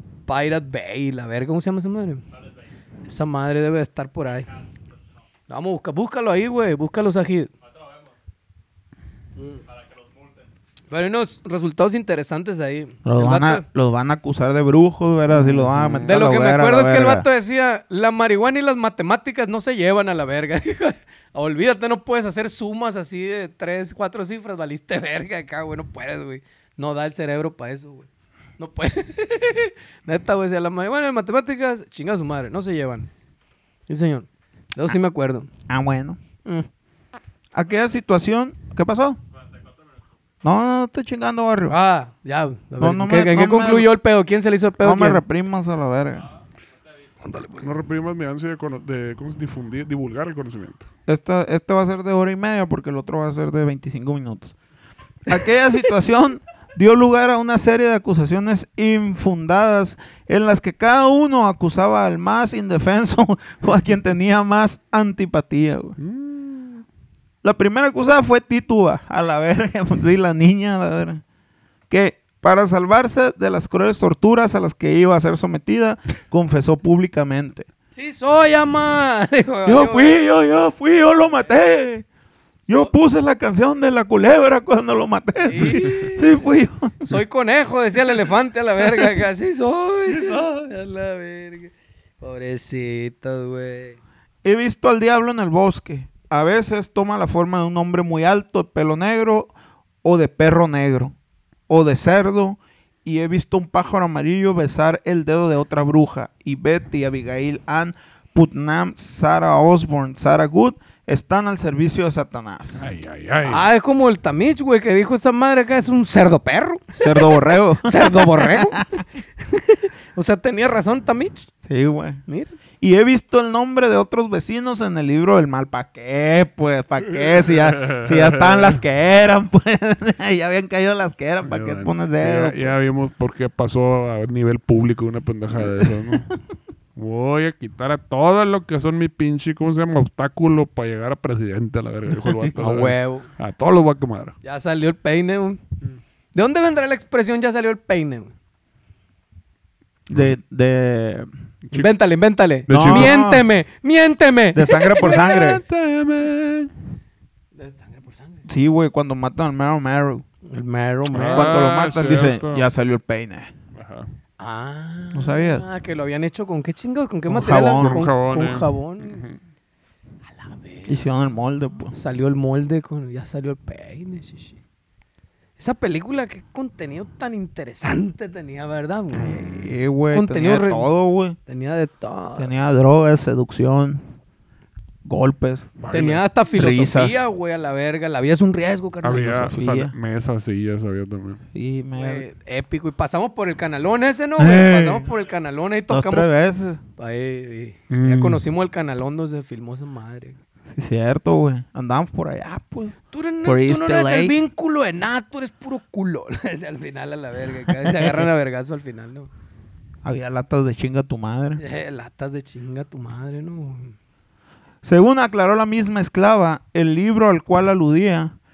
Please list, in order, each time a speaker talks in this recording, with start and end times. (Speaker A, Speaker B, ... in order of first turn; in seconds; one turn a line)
Speaker A: 0.3-2.2
Speaker A: 3.1-4.5
Speaker A: 5.5-7.5
Speaker A: 9.4-9.6
Speaker A: 10.9-13.7
Speaker B: 13.1-17.3
Speaker C: 15.3-16.2
Speaker A: 16.1-33.1
Speaker A: 33.9-35.5
Speaker B: 35.7-36.2
Speaker B: 37.5-39.2
Speaker B: 40.4-41.8
Speaker A: 41.7-45.2
Speaker B: 42.8-43.9
Speaker B: 44.8-46.3
Speaker A: 47.3-47.6
Speaker C: 47.6-50.9
Speaker B: 51.1-54.6
Speaker B: 55.3-66.0
Speaker C: 66.0-66.8
Speaker B: 67.4-71.2
Speaker B: 71.9-77.7
Speaker A: 77.9-80.2
Speaker B: 79.7-82.1
Speaker B: 82.7-87.1
Speaker A: 85.4-86.4
Speaker A: 87.0-94.0
Speaker B: 88.9-89.1
Speaker B: 90.1-90.7
Speaker B: 94.4-99.5
Speaker B: 100.0-101.2
Speaker B: 101.7-112.9
Speaker C: 112.8-113.7
Speaker A: 113.5-121.5
Speaker B: 116.9-118.8
Speaker B: 121.6-122.2
Speaker A: 122.3-122.6
Speaker B: 122.8-132.7
Speaker C: 127.2-128.8
Speaker C: 131.4-136.3
Speaker B: 135.6-136.2
Speaker C: 137.0-144.4
Speaker B: 142.2-142.5
Speaker A: 142.6-143.3
Speaker A: 144.4-145.6
Speaker A: 146.3-148.3
Speaker B: 150.1-151.3
Speaker C: 151.7-151.9
Speaker A: 151.7-155.3
Speaker C: 152.7-153.1
Speaker B: 152.7-153.5
Speaker B: 154.5-155.6
Speaker C: 155.0-156.7
Speaker A: 157.6-158.5
Speaker B: 158.5-160.2
Speaker A: 160.4-161.5
Speaker C: 161.1-162.7
Speaker B: 161.2-163.5
Speaker C: 163.7-164.1
Speaker A: 164.4-169.2
Speaker B: 165.1-165.7
Speaker B: 167.3-168.1
Speaker C: 167.6-169.4
Speaker A: 170.3-171.0
Speaker B: 170.9-171.9
Speaker A: 171.9-174.6
Speaker A: 175.6-180.9
Speaker B: 179.1-181.4
Speaker A: 181.5-182.5
Speaker B: 182.4-184.0
Speaker B: 185.1-185.8
Speaker C: 185.8-186.2
Speaker A: 185.9-189.5
Speaker B: 186.6-187.2
Speaker C: 189.0-191.4
Speaker B: 189.4-189.9
Speaker B: 191.5-192.3
Speaker A: 192.0-196.3
Speaker B: 194.4-195.1
Speaker B: 195.9-196.8
Speaker A: 197.0-200.4
Speaker C: 197.9-198.4
Speaker B: 200.7-204.3
Speaker A: 203.1-209.3
Speaker B: 207.7-208.3
Speaker B: 210.0-211.6
Speaker A: 211.6-213.9
Speaker B: 214.8-218.4